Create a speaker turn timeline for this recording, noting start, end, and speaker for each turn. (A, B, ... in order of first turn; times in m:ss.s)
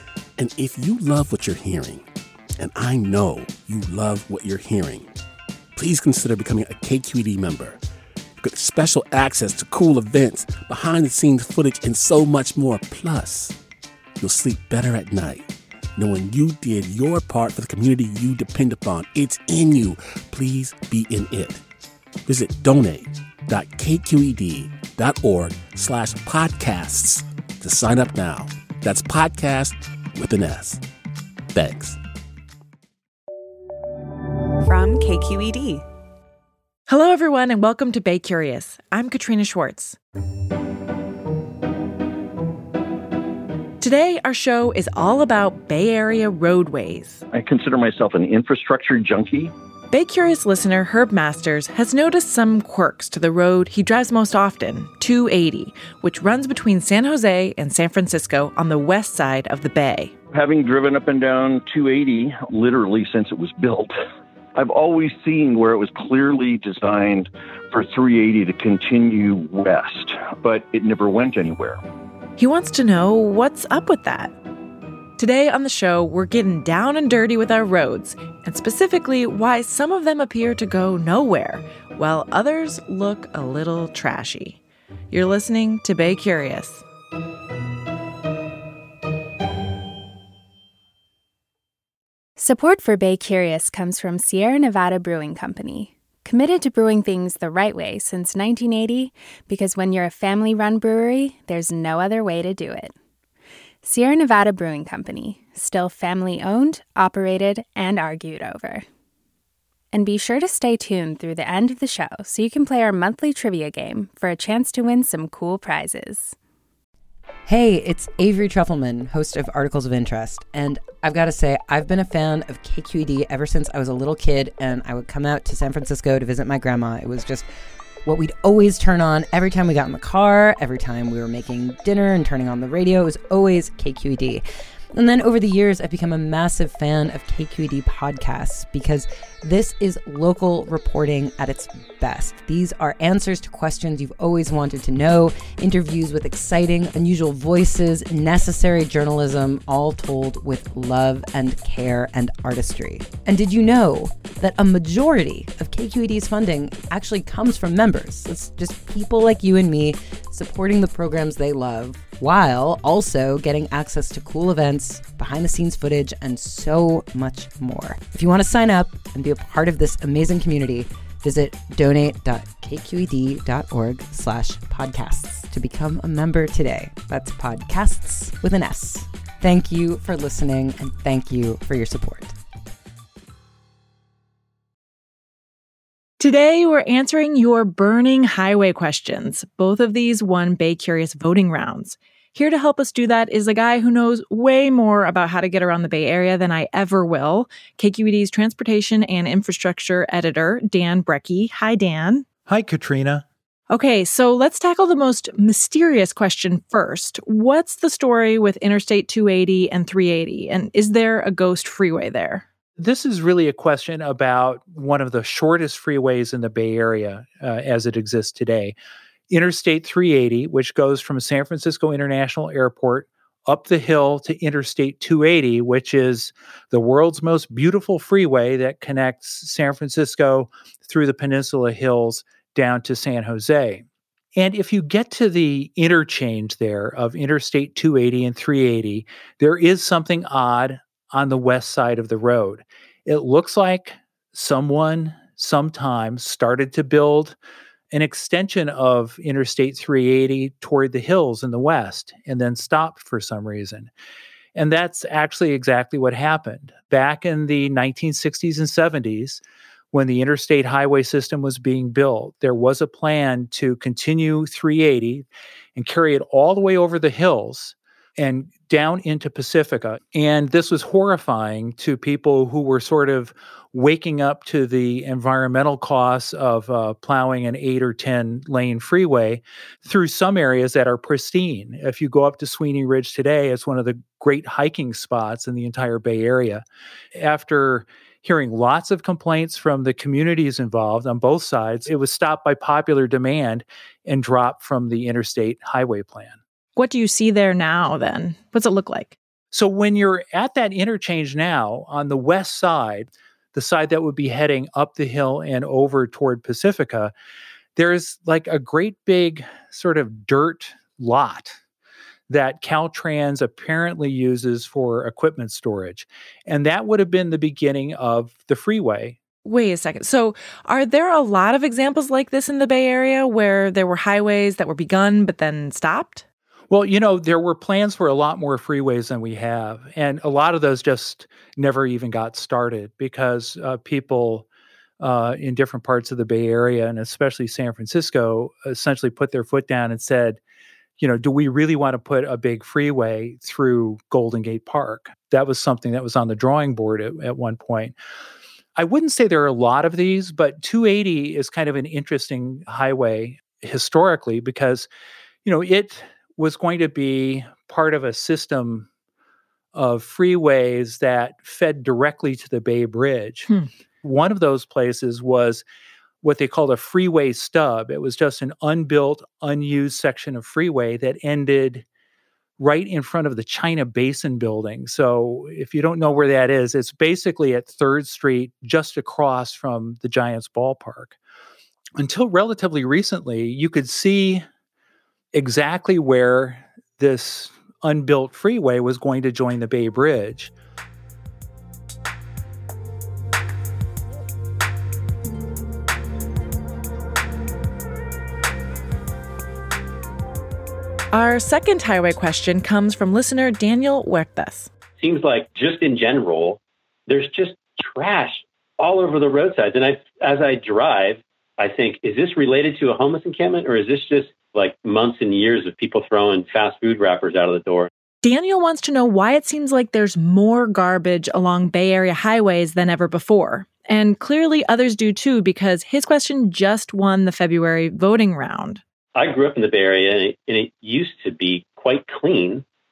0:00.4-0:02.0 A
0:02.6-0:05.1 A
0:05.8-0:07.8 A
0:08.4-0:13.6 A
0:14.2-0:21.6 A
0:22.3-0:30.8 A
0:31.5-0:32.0 A
0:36.9-0:40.0 B
0:43.8-0:47.2 B
0:47.3-0:49.5 C
0:49.9-1:00.1 B
1:00.3-1:03.9 C
1:04.6-1:11.8 C
1:12.4-1:14.3 B
1:15.2-1:24.6 B
1:25.1-1:26.8 B
1:32.4-1:42.9 D
1:43.8-1:48.8 D
1:49.9-1:56.3 D
1:57.5-2:07.4 E
2:08.0-2:14.4 E
2:14.9-3:02.3 E
3:06.2-3:22.2 B
3:22.5-3:23.2 F
3:23.7-3:32.4 B
3:32.8-3:38.8 F
3:39.3-3:53.8 F
3:54.4-4:07.4 F
4:07.9-4:13.9 F
4:14.5-4:46.6 F
4:47.2-4:56.4 F
4:56.8-4:59.2 B
4:59.5-5:07.1 F
5:07.8-5:11.6 F
5:12.3-5:19.2 F
5:19.4-5:26.2 B
5:26.7-5:34.5 F
5:35.0-5:40.4 F
5:41.0-5:48.0 F
5:48.8-5:54.9 F
5:55.4-5:58.9 F
5:59.7-6:03.5 F
6:04.0-6:05.6 F
6:06.2-6:11.8 F
6:12.6-6:21.2 F
6:22.0-6:24.4 F
6:25.3-6:30.5 F
6:41.1-6:44.7 B
6:45.0-6:57.9 G
6:58.2-7:08.8 B
7:09.2-7:12.6 G